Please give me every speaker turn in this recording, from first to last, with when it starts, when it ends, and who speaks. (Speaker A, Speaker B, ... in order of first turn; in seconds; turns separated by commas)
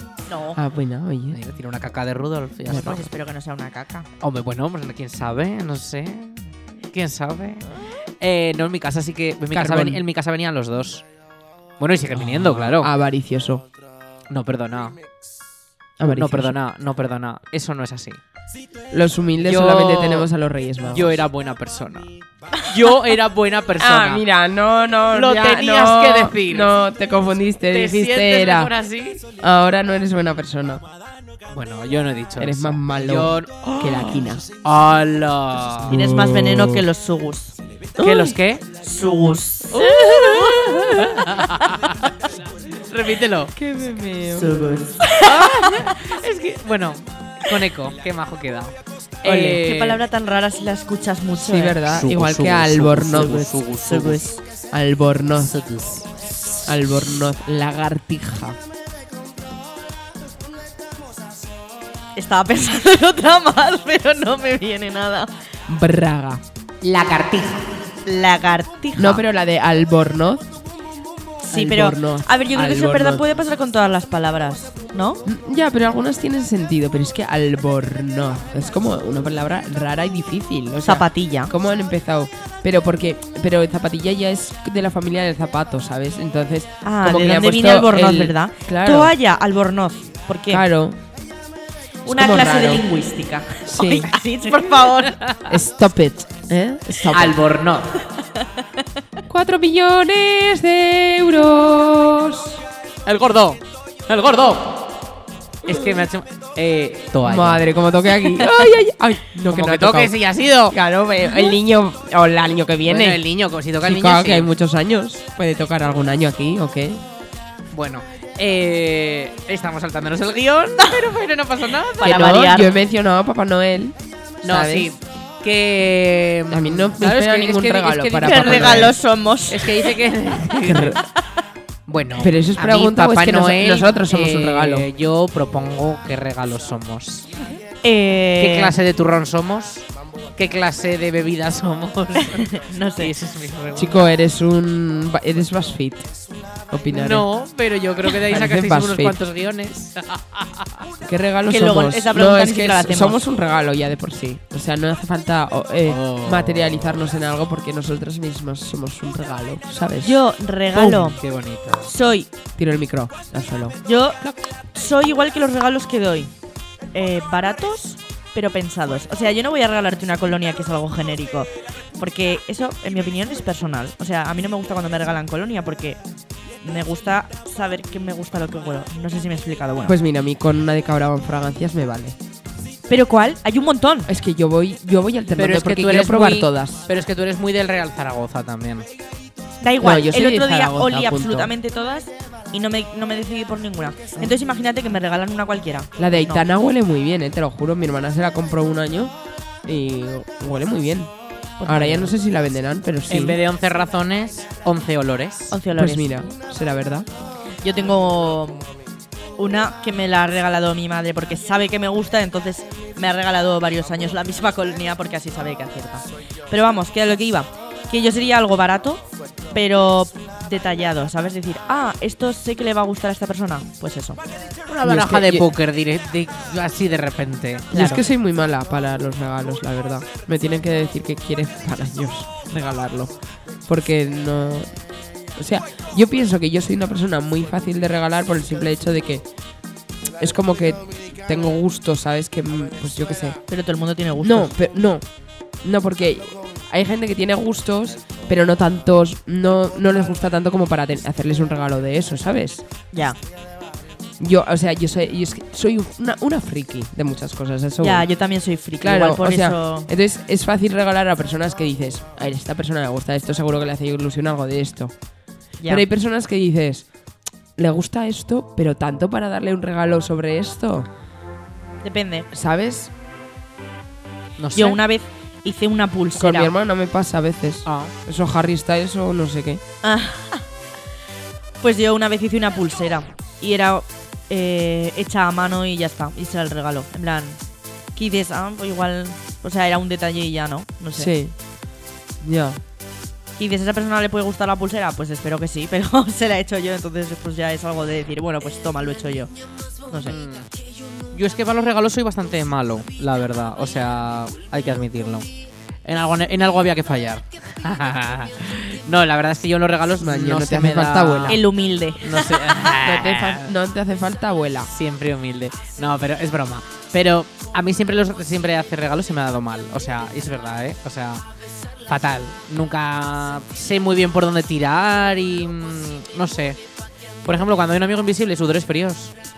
Speaker A: 0.3-0.6, Speaker B: 0.5-1.4, Speaker C: 1.3-3.1, Speaker B: 2.7-3.0, Speaker A: 2.7-4.1, Speaker C: 4.2-7.7, Speaker C: 8.2-11.0, Speaker B: 9.5-10.0, Speaker C: 11.8-12.9, Speaker B: 12.1-13.6, Speaker C: 14.3-15.0, Speaker B: 16.0-16.5, Speaker C: 16.1-18.2, Speaker B: 18.9-21.2, Speaker C: 19.4-20.3, Speaker C: 20.9-22.1, Speaker C: 22.6-24.2, Speaker B: 23.8-28.7, Speaker C: 25.1-26.7, Speaker C: 27.7-29.2, Speaker B: 29.4-30.8, Speaker C: 31.5-35.9, Speaker B: 32.4-34.4, Speaker B: 35.9-36.8, Speaker A: 35.9-37.6, Speaker C: 38.0-38.6, Speaker B: 38.0-38.3, Speaker A: 38.8-40.0, Speaker C: 39.7-43.5, Speaker B: 39.8-40.9, Speaker B: 43.5-44.5, Speaker A: 44.3-45.7, Speaker C: 45.2-50.0, Speaker B: 49.2-49.6, Speaker A: 49.6-51.8, Speaker B: 51.3-53.5, Speaker C: 51.8-54.2, Speaker A: 53.2-54.4, Speaker B: 54.7-55.5, Speaker C: 55.4-56.6, Speaker B: 56.6-58.6, Speaker A: 62.1-65.3, Speaker B: 65.7-66.4, Speaker C: 66.8-67.7, Speaker A: 68.0-69.2, Speaker B: 69.0-70.5, Speaker A: 71.4-75.2, Speaker B: 71.5-73.2, Speaker B: 75.2-89.1, Speaker A: 80.8-81.5, Speaker A: 86.8-90.6, Speaker B: 90.5-91.0, Speaker B: 92.0-92.8, Speaker A: 92.0-95.2, Speaker B: 93.7-94.1, Speaker C: 94.8-95.5, Speaker B: 95.5-97.4, Speaker C: 97.1-97.9, Speaker A: 98.2-98.6, Speaker B: 99.3-102.6, Speaker C: 103.0-104.8, Speaker C: 105.6-107.6, Speaker B: 107.2-110.1, Speaker C: 109.5-110.8, Speaker B: 110.7-113.2, Speaker C: 112.9-114.5, Speaker B: 113.8-117.0, Speaker C: 117.7-122.3, Speaker A: 122.0-122.8, Speaker B: 122.0-124.9, Speaker C: 124.4-128.9, Speaker B: 126.5-128.9, Speaker A: 128.2-129.9, Speaker C: 129.5-131.0, Speaker B: 130.6-131.0, Speaker C: 131.9-137.2, Speaker B: 132.2-134.9, Speaker A: 137.8-138.7, Speaker C: 138.4-144.0, Speaker A: 142.2-143.1, Speaker B: 143.7-146.1, Speaker B: 146.7-147.3, Speaker C: 146.9-150.8, Speaker B: 148.2-149.2, Speaker B: 151.0-160.2, Speaker A: 151.5-153.2, Speaker C: 155.9-156.9, Speaker A: 160.0-161.2, Speaker B: 160.7-161.2, Speaker C: 161.2-161.9, Speaker A: 161.8-162.3, Speaker B: 162.6-163.8, Speaker A: 163.8-164.2, Speaker A: 164.7-166.3, Speaker A: 166.9-176.0, Speaker A: 176.6-179.9, Speaker B: 179.8-182.2, Speaker A: 182.9-184.1, Speaker B: 184.1-186.9, Speaker C: 185.3-188.9, Speaker A: 189.6-196.5, Speaker B: 189.8-191.5, Speaker B: 196.0-199.1, Speaker B: 199.6-201.1, Speaker A: 201.6-202.1, Speaker B: 201.6-203.4, Speaker C: 203.1-205.6, Speaker A: 205.5-206.2, Speaker B: 205.7-207.1, Speaker A: 207.6-208.7, Speaker A: 209.4-224.2, Speaker C: 224.7-228.0, Speaker B: 224.8-225.5, Speaker B: 227.7-233.1, Speaker A: 227.7-228.0, Speaker B: 233.7-234.7, Speaker B: 235.3-239.2, Speaker B: 240.2-243.4, Speaker A: 243.5-244.5, Speaker B: 244.2-245.0, Speaker B: 245.6-252.6, Speaker B: 254.2-258.1, Speaker A: 257.8-259.9, Speaker B: 258.8-264.9, Speaker A: 265.6-265.9, Speaker B: 265.6-266.9, Speaker B: 267.6-270.9, Speaker A: 271.8-272.3, Speaker B: 272.3-272.9, Speaker C: 274.4-274.8, Speaker A: 274.5-276.5, Speaker B: 276.1-279.6, Speaker C: 277.6-277.9, Speaker A: 279.8-280.4, Speaker A: 281.6-287.4, Speaker A: 287.9-291.1, Speaker B: 290.9-291.3, Speaker B: 292.2-292.6, Speaker A: 293.4-299.3, Speaker A: 299.9-300.1, Speaker C: 300.1-300.5, Speaker C: 301.1-305.3, Speaker C: 305.8-311.4, Speaker B: 310.0-311.4, Speaker A: 311.3-312.6, Speaker C: 312.0-313.5, Speaker B: 312.7-314.7, Speaker C: 314.7-321.2, Speaker C: 321.9-326.6, Speaker C: 327.2-329.1